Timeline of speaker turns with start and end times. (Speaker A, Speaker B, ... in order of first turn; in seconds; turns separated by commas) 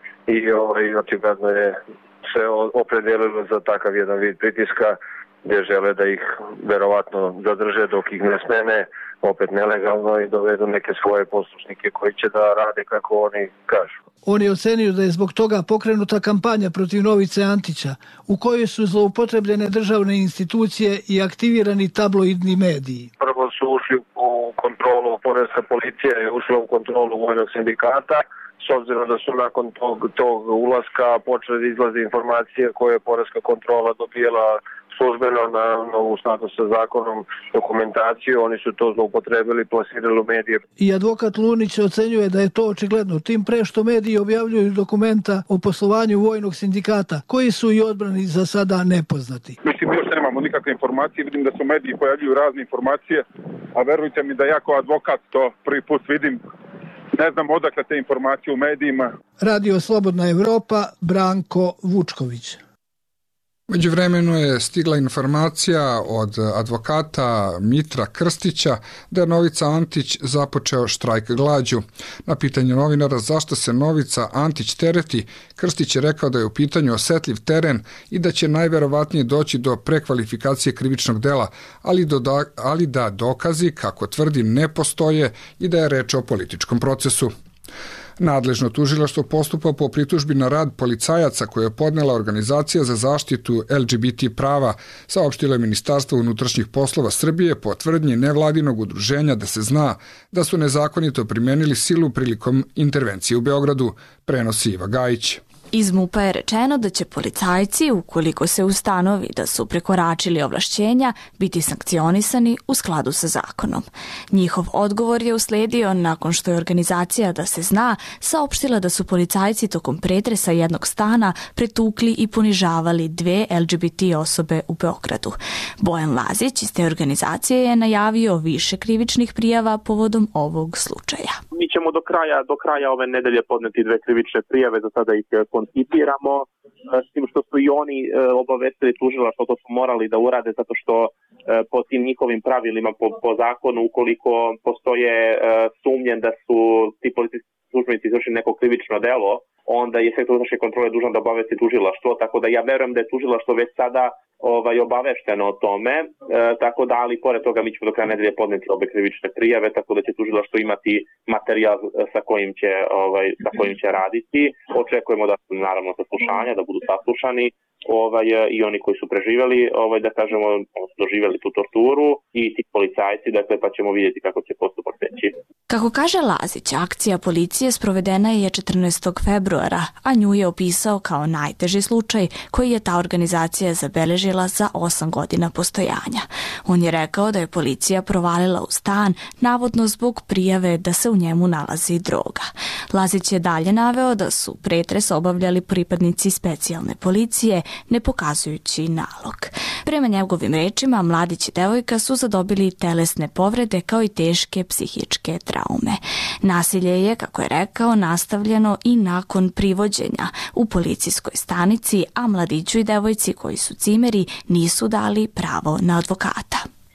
Speaker A: 0.3-13.9, Speaker B: 14.2-23.1, Speaker A: 23.2-40.6, Speaker B: 40.8-49.6, Speaker C: 49.6-56.4, Speaker C: 57.1-59.2, Speaker B: 59.4-62.6, Speaker D: 63.7-87.3, Speaker D: 88.2-105.4, Speaker E: 105.7-131.4, Speaker F: 131.5-175.3, Speaker E: 175.7-216.7